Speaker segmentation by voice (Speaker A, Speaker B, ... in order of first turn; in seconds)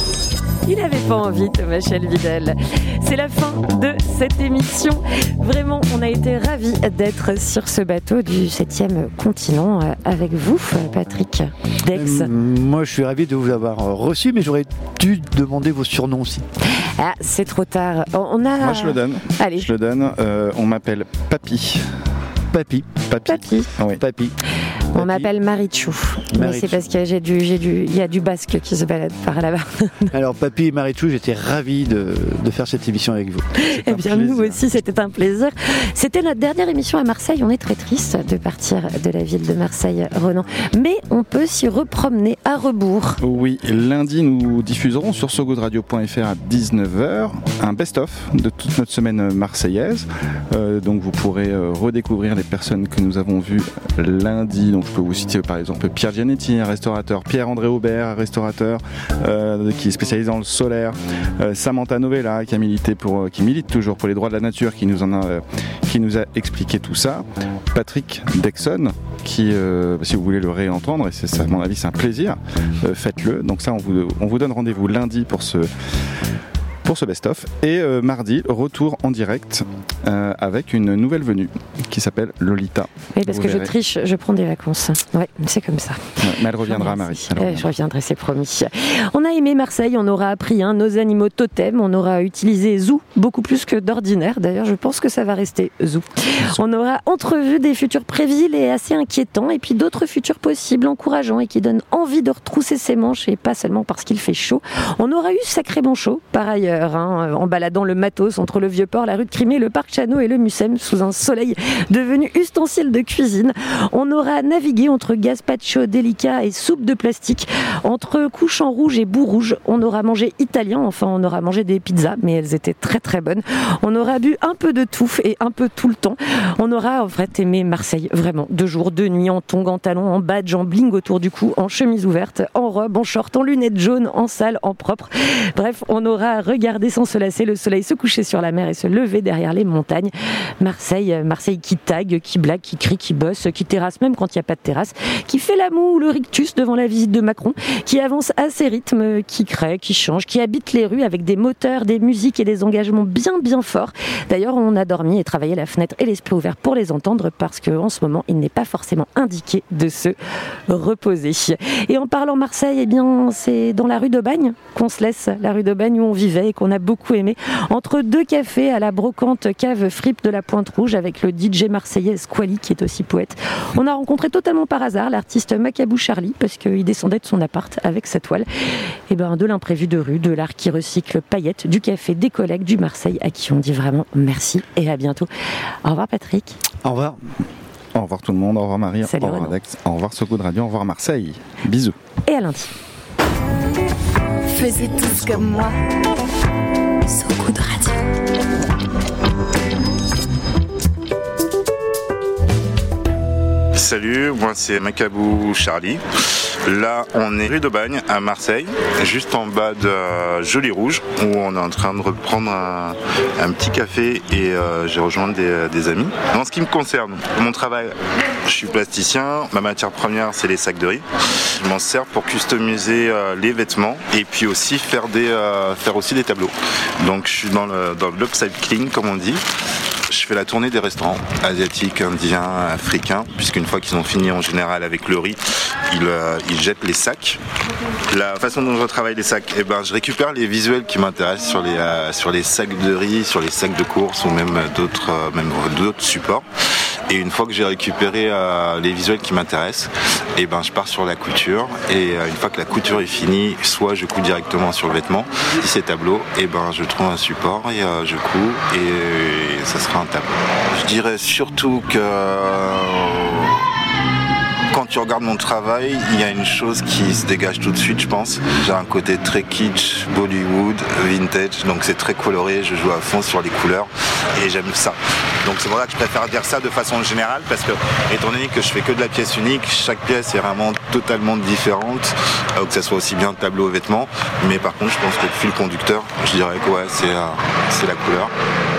Speaker A: 0.7-12.3, 16.8-19.7, 23.3-23.7, 24.9-30.1, 33.6-43.2, 83.2-86.0, 86.6-160.2, 160.7-178.5, 179.1-185.3, 185.8-186.6, 189.1-189.5, 192.3-192.7, 197.2-197.8
Speaker B: 11.9-16.4, 22.5-23.0, 23.9-24.4, 24.9-25.3, 26.3-26.8, 30.1-33.5, 186.8-187.2
Speaker C: 18.6-21.9, 23.1-24.0, 33.7-34.6, 43.2-75.7, 76.8-83.7, 86.2-87.7, 187.9-191.9
Speaker D: 194.5-195.8, 197.2-197.9
Speaker E: 203.7-229.4, 230.1-237.4, 238.1-246.4, 247.1-263.6, 264.7-288.3